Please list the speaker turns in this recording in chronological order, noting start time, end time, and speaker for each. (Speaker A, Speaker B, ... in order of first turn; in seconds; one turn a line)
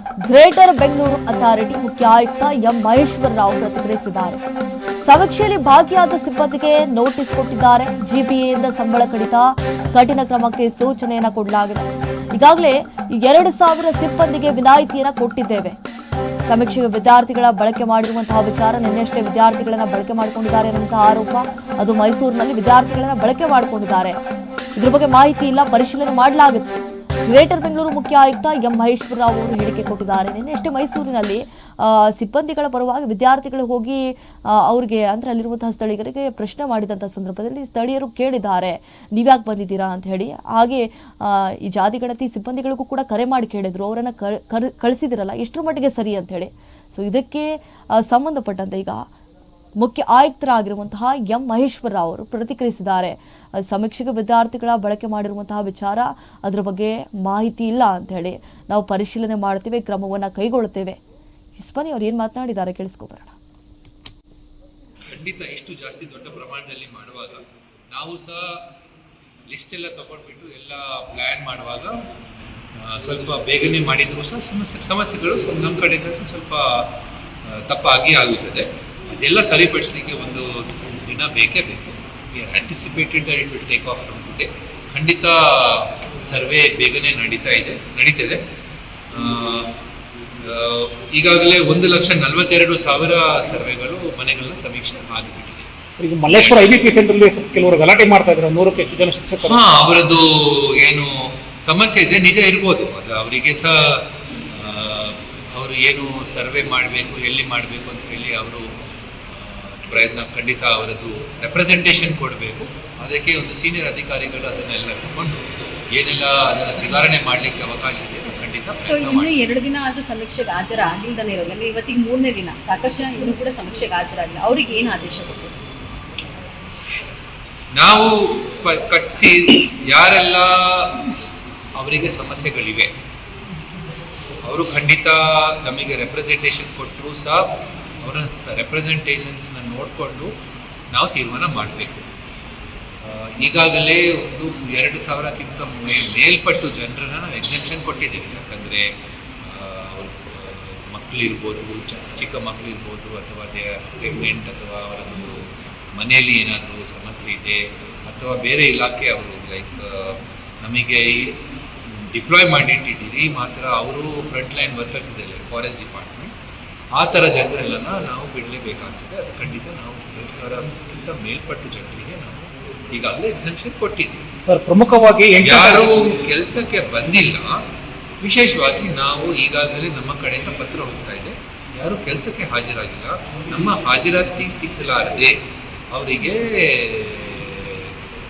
Speaker A: 0.2-4.4
Speaker A: 5.0-15.8
Speaker A: 16.4-24.2
Speaker A: 24.8-49.1
Speaker A: 49.8-61.0
Speaker A: 61.5-63.4
Speaker B: 65.1-68.6
Speaker B: 69.5-71.9
Speaker B: 72.8-76.9
Speaker B: 77.5-88.4
Speaker B: 89.1-89.7
Speaker B: 90.4-95.7
Speaker C: 96.0-99.7
Speaker B: 96.3-96.9
Speaker B: 99.4-108.7
Speaker B: 109.3-119.5
Speaker D: 118.8-125.7
Speaker B: 127.7-132.9
Speaker B: 134.4-140.3
Speaker B: 140.9-142.1
Speaker B: 143.0-148.9
Speaker B: 149.4-161.4
Speaker B: 161.9-166.3
Speaker B: 167.0-174.2
Speaker C: 174.4-175.9
Speaker B: 175.4-177.6
Speaker B: 178.2-187.9